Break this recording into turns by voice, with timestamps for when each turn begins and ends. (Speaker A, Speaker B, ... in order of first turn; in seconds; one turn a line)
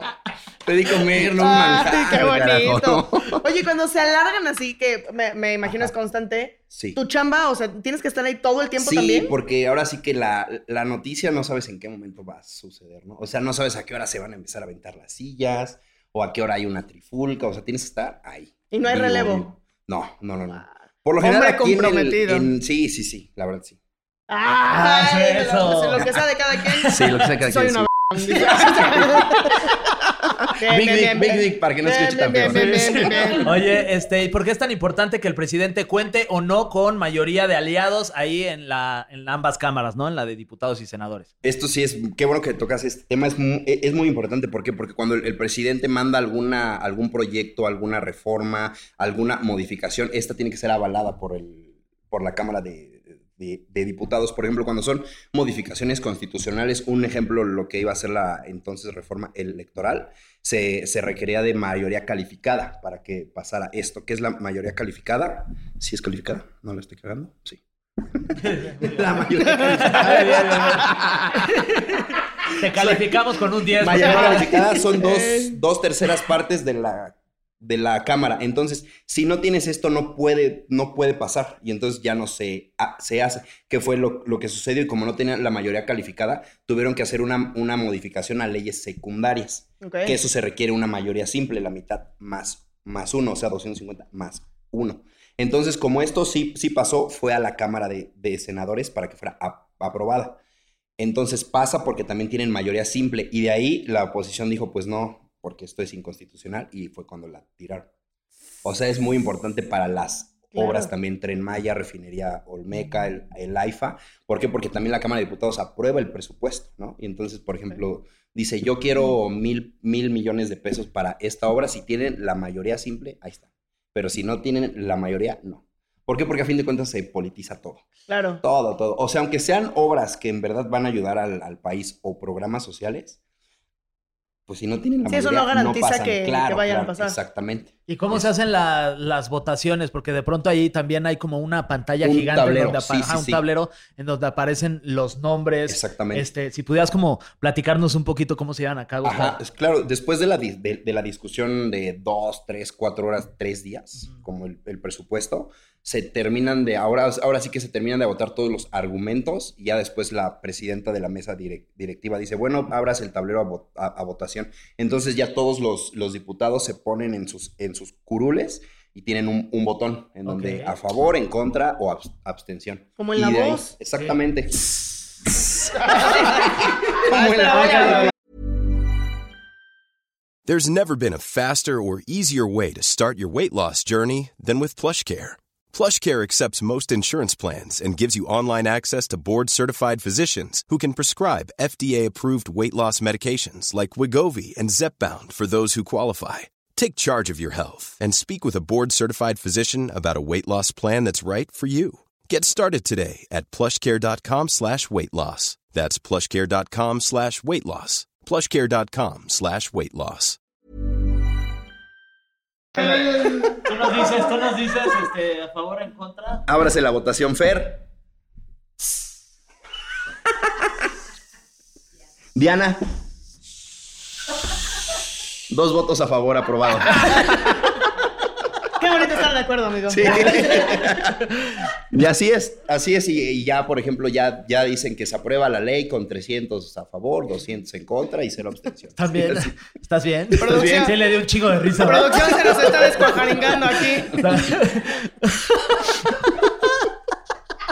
Speaker A: 0.6-3.4
Speaker B: 1.2-9.3
Speaker A: 5.6-5.9
Speaker A: 6.7-7.0
Speaker A: 8.8-23.8
Speaker B: 18.7-19.5
Speaker B: 21.2-22.5
Speaker B: 24.3-29.6
Speaker C: 24.7-27.3
Speaker A: 26.9-29.3
Speaker B: 30.6-33.5
Speaker A: 30.7-33.5
Speaker C: 32.5-41.3
Speaker A: 41.4-67.6
Speaker A: 68.1-71.7
Speaker C: 68.4-74.5
Speaker B: 69.6-70.1
Speaker A: 72.7-73.1
Speaker A: 73.7-100.4
Speaker B: 74.0-75.6
Speaker B: 89.8-90.2
Speaker A: 101.0-107.9
Speaker A: 108.6-127.8
Speaker B: 110.5-110.9
Speaker B: 128.1-128.4
Speaker A: 128.4-133.2
Speaker A: 134.5-138.3
Speaker B: 135.1-137.2
Speaker C: 137.9-149.4
Speaker A: 142.0-143.4
Speaker A: 145.7-146.3
Speaker A: 149.0-178.1
Speaker C: 170.2-170.7
Speaker B: 173.0-173.6
Speaker B: 176.0-176.3
Speaker B: 176.9-178.1
Speaker C: 177.7-178.0
Speaker D: 180.4-210.4
Speaker C: 212.8-216.4
Speaker A: 216.5-217.8
Speaker A: 222.3-222.8
Speaker A: 225.5-227.6
Speaker B: 228.8-230.8
Speaker A: 229.9-231.3
Speaker A: 231.9-239.5
Speaker C: 238.9-243.1
Speaker B: 240.4-241.0
Speaker B: 241.8-244.3
Speaker C: 244.1-246.7